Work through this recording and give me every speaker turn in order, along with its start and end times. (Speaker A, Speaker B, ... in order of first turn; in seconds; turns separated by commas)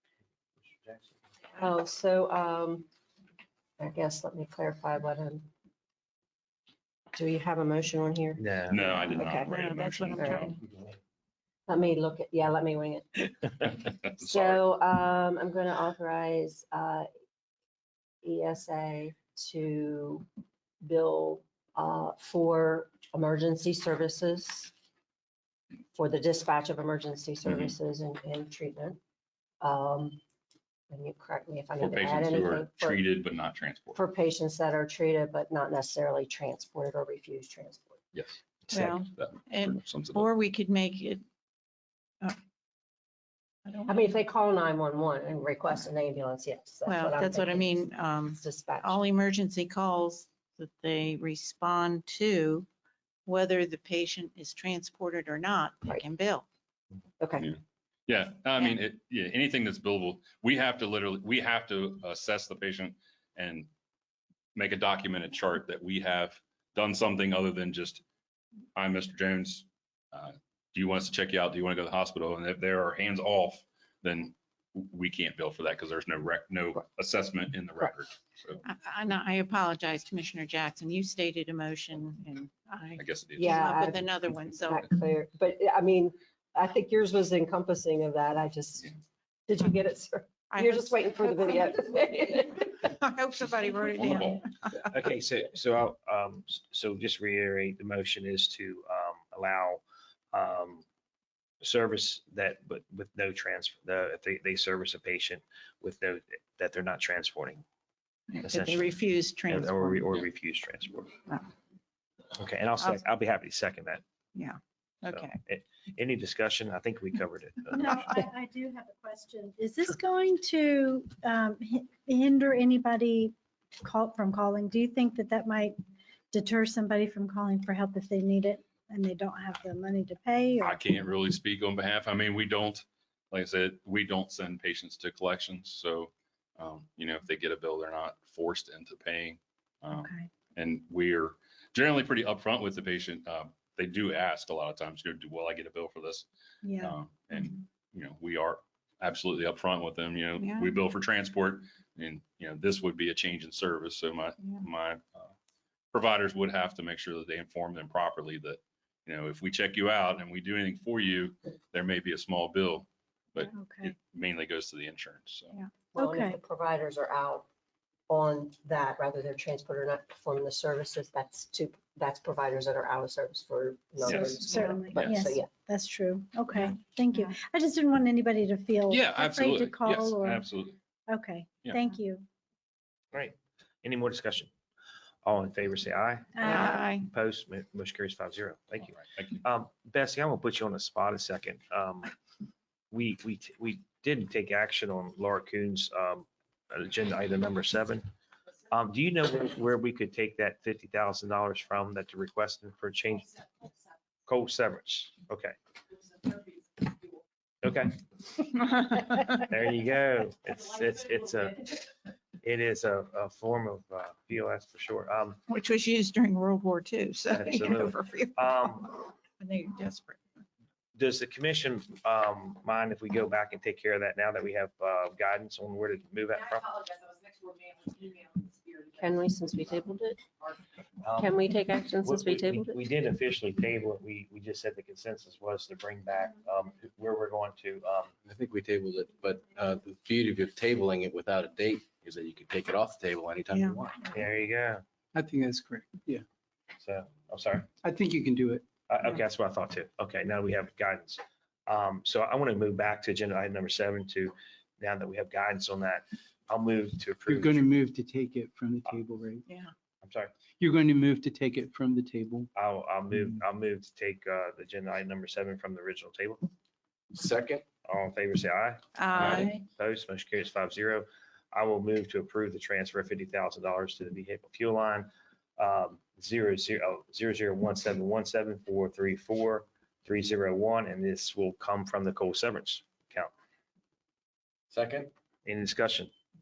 Speaker A: 0.6-1.1, Speaker B: 1.6-2.9, Speaker B: 3.8-5.5, Speaker B: 7.1-10.5, Speaker A: 8.4-8.9, Speaker C: 8.7-10.6, Speaker D: 9.5-10.6, Speaker B: 11.7-17.1, Speaker C: 14.1-14.6, Speaker B: 18.2-20.3, Speaker B: 20.8-24.7, Speaker B: 25.9-29.0, Speaker C: 27.4-27.7, Speaker B: 29.6-30.2, Speaker B: 30.9-33.0, Speaker C: 31.8-34.0, Speaker B: 34.0-38.0, Speaker C: 38.1-40.3, Speaker D: 38.7-41.2, Speaker D: 43.7-44.1, Speaker B: 43.9-49.0, Speaker D: 46.9-52.7, Speaker D: 53.3-56.5, Speaker B: 57.2-57.5, Speaker C: 57.4-63.7, Speaker C: 64.5-68.0, Speaker C: 68.8-78.6, Speaker D: 78.6-84.9, Speaker C: 83.0-83.8, Speaker B: 83.4-88.9, Speaker B: 89.5-92.9, Speaker D: 90.5-91.8, Speaker D: 92.6-94.7, Speaker C: 94.0-94.5, Speaker A: 94.8-100.8, Speaker A: 101.6-107.6, Speaker D: 108.3-110.3, Speaker A: 108.4-109.0, Speaker A: 109.5-111.1, Speaker A: 112.3-114.0, Speaker D: 114.3-115.4, Speaker A: 115.1-118.2, Speaker E: 117.7-125.8, Speaker E: 126.3-130.8, Speaker C: 130.6-146.3, Speaker E: 139.9-140.3, Speaker E: 146.6-147.0, Speaker C: 146.8-155.3, Speaker D: 150.4-150.8, Speaker C: 155.9-165.6, Speaker E: 163.4-163.9, Speaker B: 165.9-167.5, Speaker E: 166.0-166.4, Speaker B: 168.1-175.5, Speaker E: 174.1-180.6, Speaker C: 178.9-180.8, Speaker E: 181.1-182.3, Speaker A: 183.1-184.5, Speaker A: 185.2-192.1, Speaker E: 186.3-186.8, Speaker D: 186.4-187.1, Speaker C: 189.0-189.4, Speaker A: 192.9-198.1, Speaker A: 198.7-203.4, Speaker A: 204.3-205.6, Speaker A: 207.6-208.0, Speaker D: 208.7-209.3, Speaker A: 209.3-211.8, Speaker A: 212.4-215.4, Speaker D: 215.5-220.2, Speaker A: 217.3-218.9, Speaker A: 221.0-226.8, Speaker B: 228.9-230.2, Speaker A: 231.0-231.3, Speaker B: 231.2-232.8, Speaker A: 232.0-238.1, Speaker F: 238.2-244.2, Speaker D: 243.5-243.8, Speaker A: 244.1-244.8, Speaker G: 245.2-246.2, Speaker A: 246.8-247.7, Speaker G: 247.8-248.6, Speaker A: 248.9-257.7, Speaker G: 257.3-259.4, Speaker A: 260.0-260.3, Speaker G: 260.6-262.5, Speaker A: 262.6-266.5, Speaker F: 267.1-267.6, Speaker A: 267.8-283.3, Speaker D: 269.0-269.6, Speaker F: 284.7-285.1, Speaker A: 285.4-286.1